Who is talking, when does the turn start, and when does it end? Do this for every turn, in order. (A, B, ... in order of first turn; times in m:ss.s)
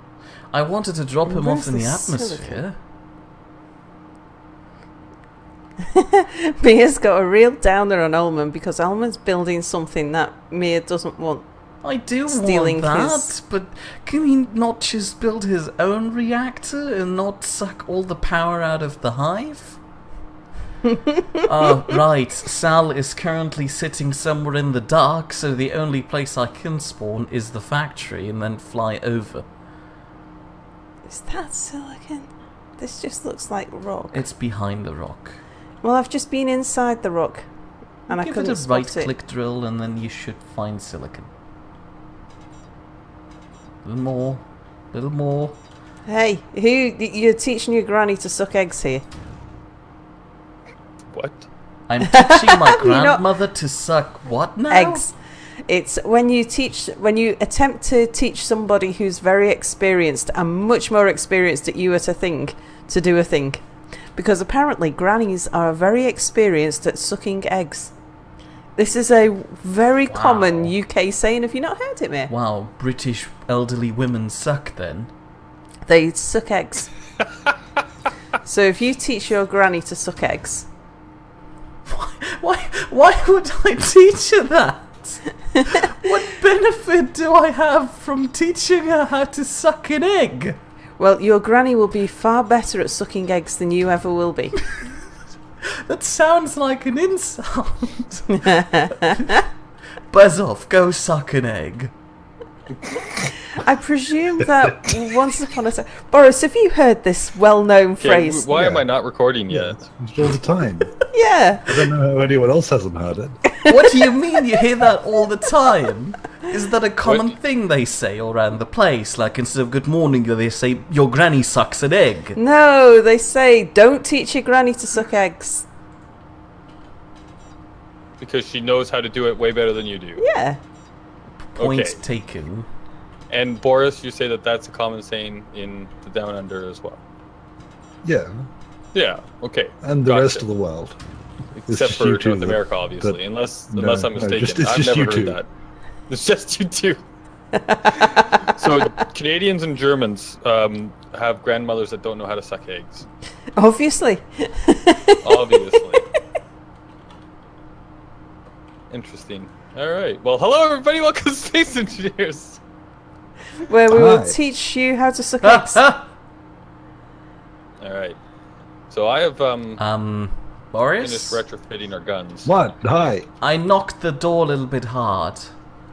0:00.5-0:02.8 A
0:01.2-0:02.6 B
0:05.9-0:11.5 B
0:11.8-0:19.8 A
0:12.3-0:13.3 B
0:21.4-0:29.4 A
0:31.1-0:34.2 B
0:34.1-0:35.4 A
0:35.8-0:37.5 B
0:38.1-0:39.1 B
0:38.1-0:41.3 A
0:43.8-0:45.6 A
0:46.0-0:49.0 B
0:51.1-0:51.5 C
0:51.9-0:55.0 A
0:52.1-0:53.2 B
0:54.7-1:08.0 B
1:08.8-1:12.3 B
1:10.1-1:10.7 A
1:12.3-1:15.1 A
1:15.9-1:16.9 B
1:18.4-1:20.7 B
1:21.8-1:30.6 A
1:31.0-1:34.8 B
1:35.8-1:38.6 A
1:38.4-1:39.4 B
1:40.1-1:41.9 A
1:43.5-1:48.5 B
1:48.0-1:49.8 C
1:48.5-1:48.8 D
1:49.5-1:50.9 D
1:51.1-1:51.8 B
1:51.6-1:53.4 D
1:53.7-2:02.4 A
1:57.0-1:57.3 C
2:02.4-2:05.6 B
2:08.2-2:10.2 C
2:10.2-2:10.6 B
2:11.5-2:12.7 A
2:11.6-2:12.0 C
2:13.3-2:17.0 C
2:18.0-2:18.5 D
2:18.9-2:20.4 C
2:19.8-2:21.0 D
2:21.6-2:25.5 C
2:21.7-2:25.4 D
2:26.1-2:27.0 C
2:27.5-2:28.9 B
2:28.5-2:33.0 C
2:33.6-2:35.6 B
2:35.2-2:36.0 C
2:38.9-2:42.6 C
2:43.6-2:45.8 B
2:43.9-2:44.4 D
2:45.4-2:46.1 A
2:47.8-2:48.2 C
2:48.9-2:49.8 C
2:49.8-2:51.4 A
2:51.0-2:52.5 C
2:52.4-2:53.3 D
2:53.4-2:55.5 A